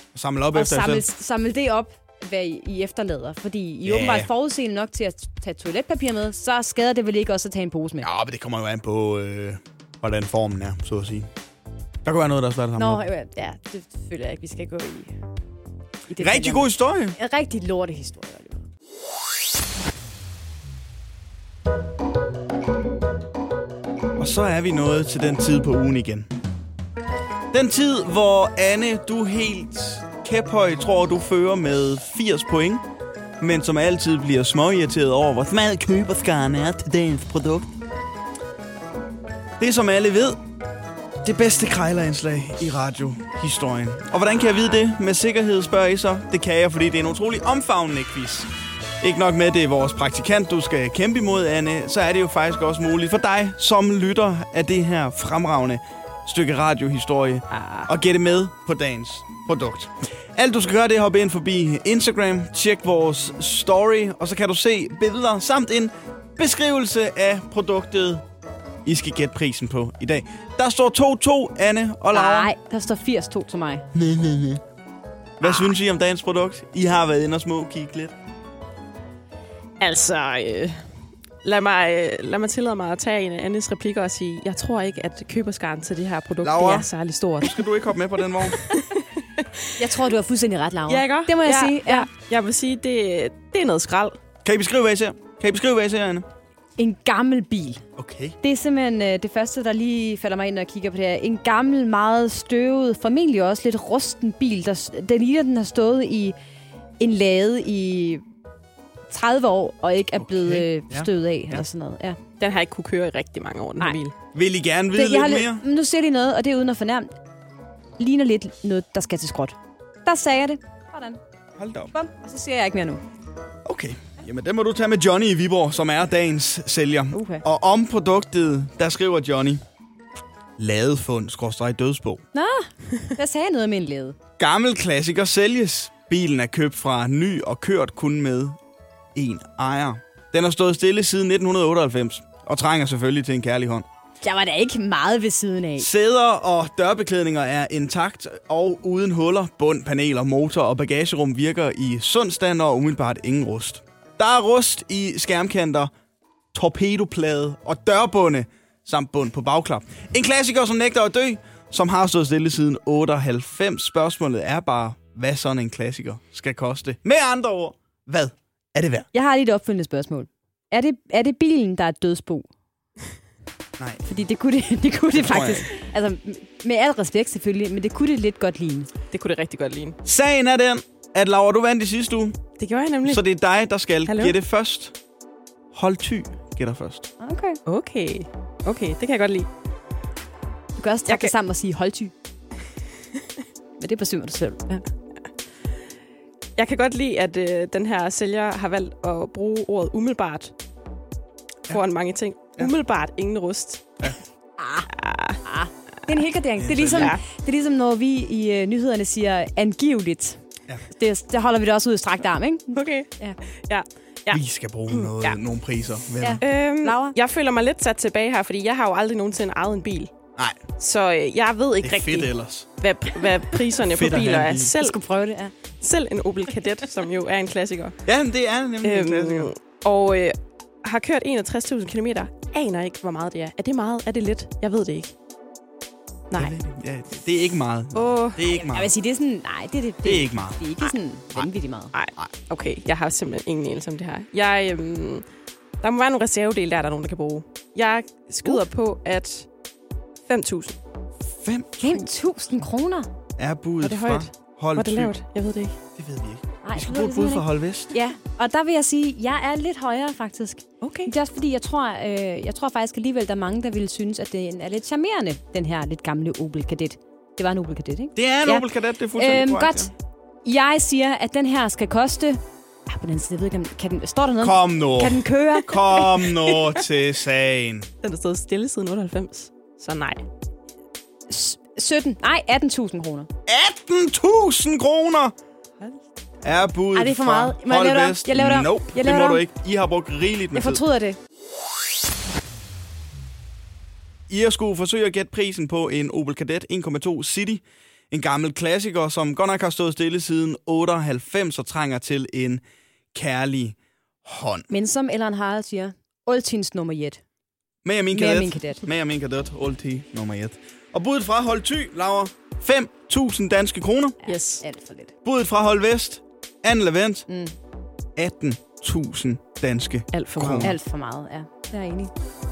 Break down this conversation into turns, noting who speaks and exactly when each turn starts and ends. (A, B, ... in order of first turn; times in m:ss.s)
0:00.1-0:01.0 A
0:00.5-0:08.1 B
0:03.8-0:04.3 A
0:08.0-0:11.3 A
0:12.0-0:13.0 A
0:12.8-0:15.2 B
0:16.1-0:18.6 B
0:16.2-0:17.2 A
0:24.2-0:26.3 A
0:27.5-0:32.8 A
0:33.4-0:37.7 A
0:39.6-0:40.4 A
0:41.2-0:48.5 A
0:49.0-1:08.2 A
0:57.5-0:57.9 C
1:08.8-1:12.5 A
1:12.1-1:13.9 B
1:13.9-1:14.6 A
1:15.4-1:18.2 A
1:19.8-1:27.6 C
1:26.4-1:26.9 A
1:27.4-1:28.6 A
1:28.7-1:29.7 C
1:29.8-1:32.1 B
1:30.9-1:34.2 C
1:34.4-1:36.3 A
1:36.8-1:37.8 B
1:38.0-1:38.4 A
1:38.4-1:46.4 B
1:47.0-1:48.2 B
1:49.1-1:52.2 B
1:50.2-1:51.6 A
1:52.4-1:54.2 C
1:54.3-1:55.6 A
1:54.9-1:57.1 B
1:58.0-2:01.2 B
2:01.6-2:01.9 A
2:01.9-2:03.0 B
2:03.6-2:09.6 A
2:07.1-2:07.4 B
2:10.6-2:12.2 A
2:12.3-2:14.2 B
2:14.4-2:18.6 A
2:19.2-2:23.9 A
2:24.2-2:25.9 B
2:25.8-2:35.9 A
2:36.5-2:49.1 A
2:49.1-2:52.5 B
2:53.8-2:54.0 A
2:54.1-2:58.9 B
2:55.1-2:55.7 A
2:59.1-3:00.0 C
3:00.0-3:02.4 A
3:02.6-3:03.2 C
3:03.0-3:05.0 A
3:04.1-3:04.4 C
3:05.7-3:07.1 A
3:07.2-3:07.6 B
3:07.7-3:09.5 C
3:10.8-3:12.1 B
3:13.8-3:14.8 B
3:16.6-3:20.5 C
3:21.7-3:24.2 C
3:24.6-3:24.9 B
3:24.9-3:25.4 C
3:25.4-3:33.4 B
3:26.6-3:27.1 A
3:26.9-3:27.2 C
3:32.8-3:35.4 C
3:34.3-3:36.4 A
3:36.2-3:37.2 B
3:36.4-3:40.1 C
3:40.8-3:45.0 C
3:41.8-3:42.7 A
3:43.8-3:44.7 A
3:44.8-3:45.5 B
3:45.8-3:48.0 C
3:48.1-3:49.5 A
3:48.8-3:55.1 C
3:56.3-3:58.9 A
3:58.0-3:58.4 C
3:58.5-4:01.9 B
4:00.0-4:00.6 A
4:01.9-4:05.3 C
4:05.8-4:09.5 C
4:10.3-4:10.8 C
4:11.3-4:12.1 A
4:11.8-4:13.1 B
4:13.4-4:15.2 A
4:13.8-4:15.8 C
4:16.0-4:17.9 A
4:16.6-4:28.7 B
4:20.8-4:21.1 C
4:28.2-4:29.9 A
4:29.2-4:29.9 B
4:30.4-4:36.3 B
4:34.4-4:37.9 A
4:38.0-4:40.3 C
4:41.3-4:43.3 B
4:43.5-4:45.4 A
4:46.4-4:50.8 A
4:47.0-4:49.4 B
4:50.5-4:51.2 B
4:54.3-5:02.6 A
5:03.1-5:04.7 A
5:04.7-5:07.2 B
5:07.8-5:14.2 A
5:08.1-5:08.8 B
5:14.2-5:15.1 B
5:14.3-5:14.6 C
5:15.2-5:17.3 A
5:17.3-5:17.5 B
5:18.2-5:20.8 A
5:20.1-5:20.8 C
5:20.6-5:22.1 B